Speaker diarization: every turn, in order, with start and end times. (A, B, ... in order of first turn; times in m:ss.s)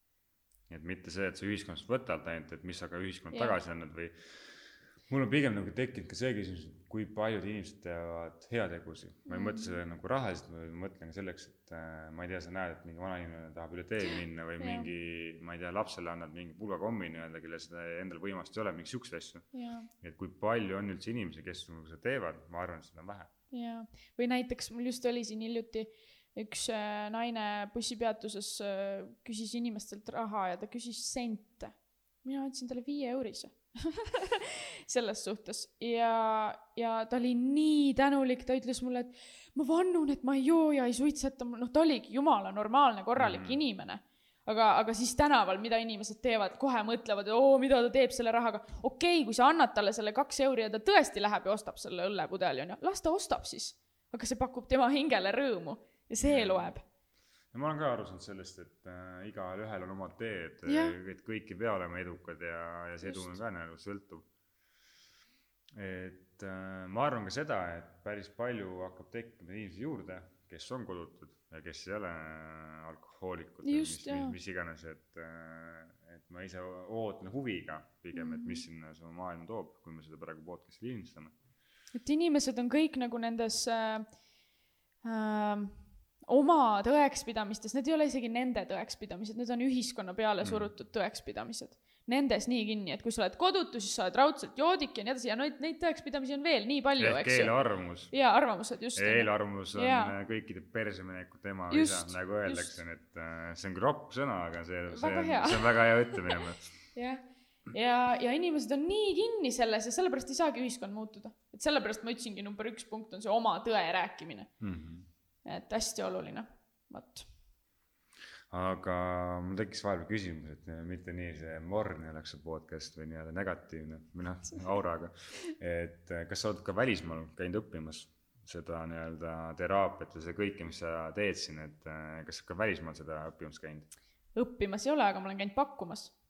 0:00.7-0:19.5 A
0:09.3-0:09.7 B
0:14.6-0:14.9 B
0:19.5-0:19.9 B
0:20.0-0:23.3 A
0:23.5-0:56.8 B
0:43.2-0:43.6 A
0:56.2-0:56.7 A
0:57.5-1:04.3 A
1:00.7-1:01.0 B
1:05.8-1:21.3 A
1:13.6-1:14.4 B
1:18.1-1:18.6 B
1:21.9-1:24.1 B
1:25.0-1:37.5 B
1:30.4-1:30.7 A
1:37.0-1:38.1 A
1:38.1-1:40.1 B
1:39.0-1:46.8 A
1:41.7-1:42.7 B
1:44.9-1:45.8 B
1:47.0-1:54.5 B
1:54.6-1:55.1 A
1:55.4-1:57.3 B
1:58.5-2:13.9 A
2:14.4-2:16.1 B